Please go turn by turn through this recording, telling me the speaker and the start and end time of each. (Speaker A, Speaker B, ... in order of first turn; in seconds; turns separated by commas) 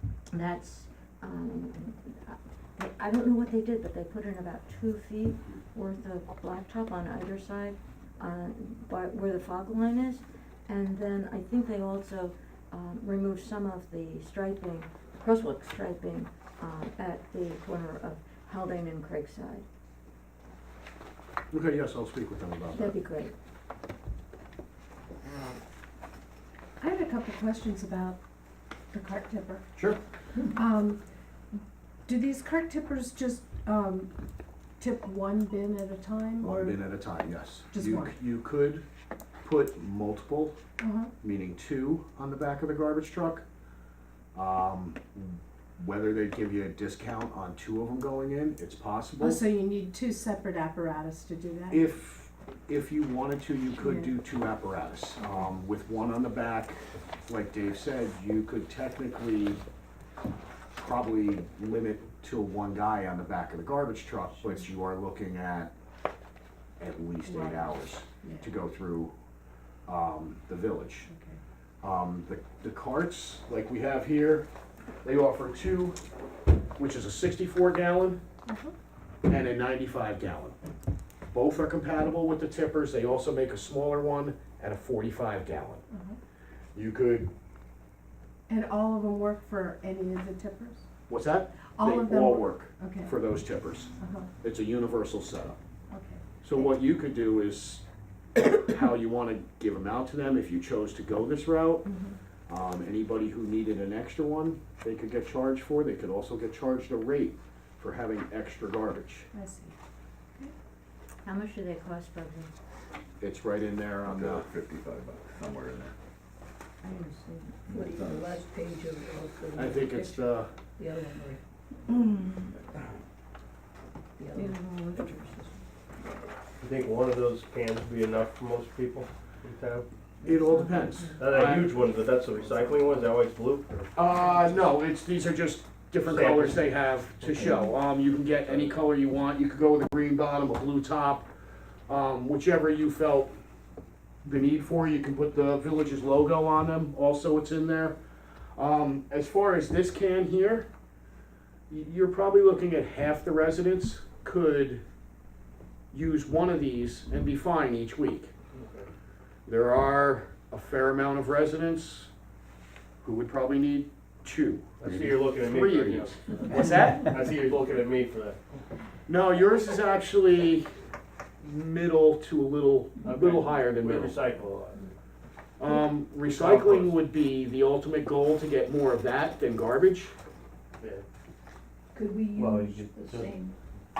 Speaker A: 0.3-19.6, Speaker B: 21.5-23.0, Speaker A: 22.7-23.3, Speaker C: 26.8-28.2, Speaker C: 28.9-29.6, Speaker B: 29.8-30.0, Speaker C: 30.5-31.0, Speaker C: 31.6-34.1, Speaker C: 34.8-36.8, Speaker B: 36.4-38.8, Speaker C: 37.7-38.1, Speaker B: 39.4-40.6, Speaker C: 40.8-41.1, Speaker B: 41.2-43.4, Speaker B: 44.3-49.4, Speaker C: 49.2-51.9, Speaker B: 51.7-59.6, Speaker B: 60.8-65.7, Speaker B: 66.8-69.1, Speaker C: 67.3-68.5, Speaker B: 69.8-71.1, Speaker C: 71.1-71.4, Speaker B: 71.8-74.5, Speaker B: 75.0-76.0, Speaker B: 76.8-78.2, Speaker C: 78.5-78.7, Speaker B: 79.2-80.6, Speaker B: 81.3-85.8, Speaker C: 85.9-86.2, Speaker B: 86.7-87.3, Speaker C: 88.5-90.8, Speaker B: 91.1-93.9, Speaker C: 91.8-93.1, Speaker C: 94.0-94.3, Speaker B: 94.4-95.6, Speaker C: 95.9-96.2, Speaker B: 96.4-97.8, Speaker B: 98.3-101.9, Speaker B: 102.5-109.3, Speaker C: 109.3-109.7, Speaker A: 111.2-112.5, Speaker B: 113.2-114.5, Speaker D: 114.0-115.9, Speaker A: 116.8-117.6, Speaker D: 117.7-118.3, Speaker E: 117.7-121.4, Speaker B: 119.5-120.5, Speaker A: 121.9-122.3, Speaker E: 124.2-125.5, Speaker A: 124.3-125.4, Speaker F: 126.6-129.8, Speaker A: 130.2-131.2, Speaker B: 130.2-131.8, Speaker F: 131.2-133.9, Speaker B: 133.9-141.3, Speaker F: 136.0-137.6, Speaker B: 141.9-143.3, Speaker B: 144.2-148.0, Speaker B: 148.5-150.7, Speaker B: 151.7-154.8, Speaker B: 155.9-158.3, Speaker F: 158.5-158.9, Speaker B: 159.4-162.1, Speaker B: 163.0-167.2, Speaker F: 164.8-168.4, Speaker B: 169.1-170.7, Speaker B: 171.4-174.2, Speaker F: 173.0-174.9, Speaker B: 175.6-180.1, Speaker F: 176.1-177.0, Speaker E: 181.9-183.6, Speaker F: 182.3-183.4